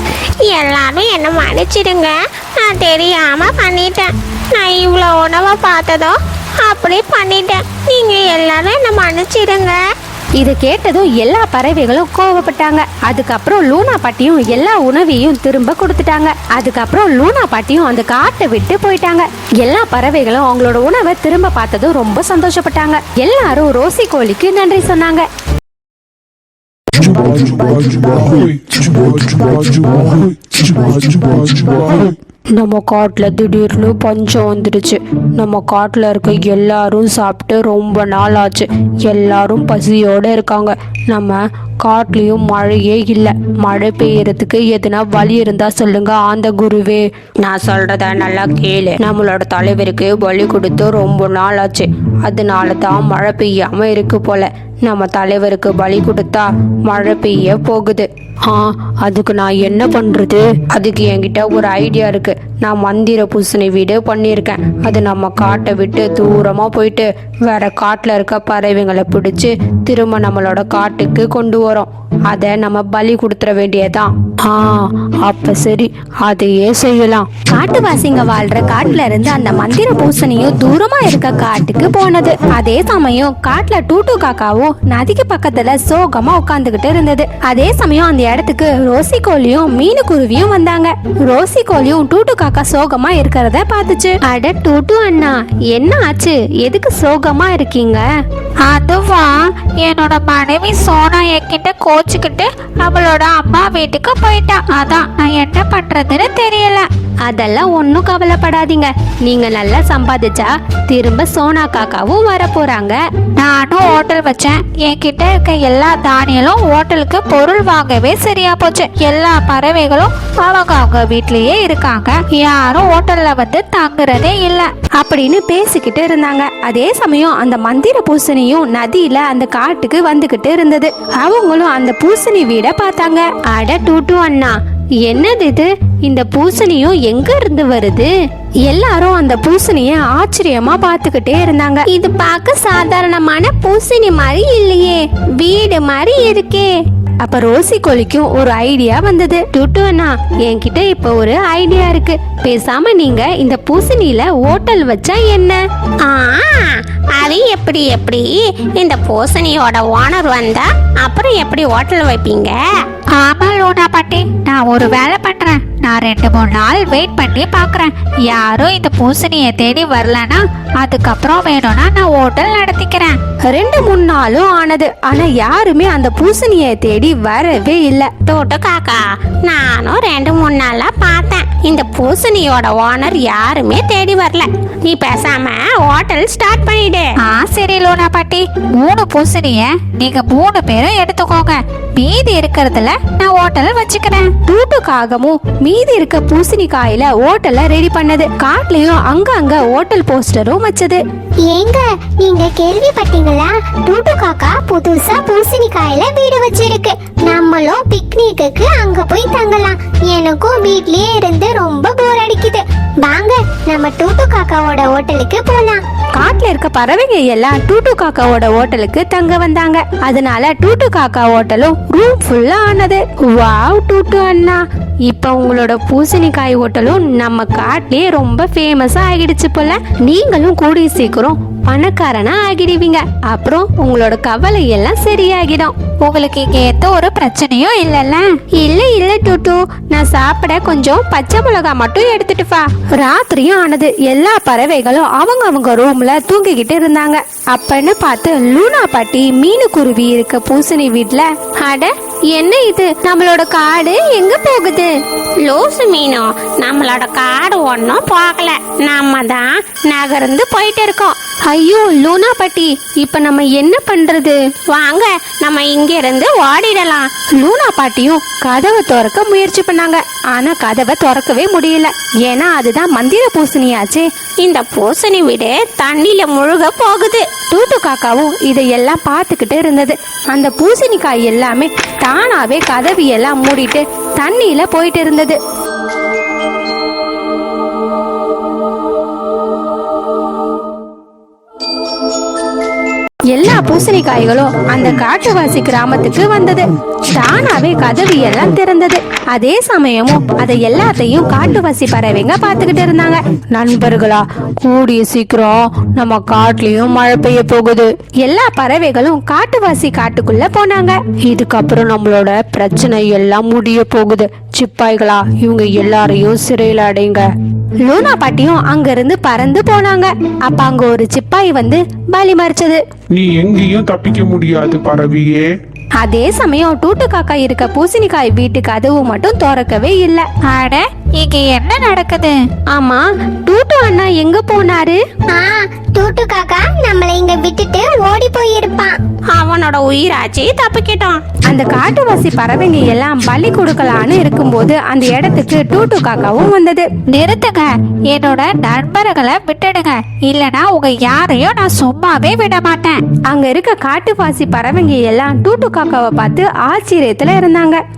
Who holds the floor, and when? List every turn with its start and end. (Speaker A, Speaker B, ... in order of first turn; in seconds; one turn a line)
Speaker A: 0.4-9.8
Speaker B: 10.4-25.3
Speaker C: 26.9-32.1
Speaker D: 32.5-47.1
Speaker A: 47.4-49.0
Speaker D: 49.0-77.3
Speaker B: 77.5-98.0
Speaker E: 98.6-106.9
Speaker B: 107.2-113.0
Speaker E: 113.4-124.7
Speaker B: 125.0-138.1
Speaker B: 138.7-141.9
Speaker A: 141.9-146.7
Speaker B: 147.2-155.6
Speaker A: 156.0-162.6
Speaker E: 163.1-173.2
Speaker B: 173.5-178.1
Speaker A: 178.2-187.1
Speaker E: 187.2-194.3
Speaker B: 194.4-201.0
Speaker F: 201.4-215.8
Speaker B: 216.1-235.7
Speaker E: 236.0-238.2
Speaker B: 238.6-254.9
Speaker A: 255.4-261.2
Speaker B: 261.4-264.4
Speaker A: 264.7-267.1
Speaker B: 267.4-274.1
Speaker A: 274.4-277.3
Speaker B: 277.5-285.4
Speaker B: 293.3-303.2
Speaker D: 303.5-307.9
Speaker B: 308.2-311.0
Speaker D: 311.2-317.2
Speaker B: 317.8-322.8
Speaker C: 323.1-325.5
Speaker B: 326.0-330.3
Speaker E: 330.4-332.4
Speaker B: 332.7-335.0
Speaker F: 335.3-338.9
Speaker A: 339.3-341.2
Speaker B: 341.4-346.9
Speaker E: 347.1-353.0
Speaker B: 353.3-357.8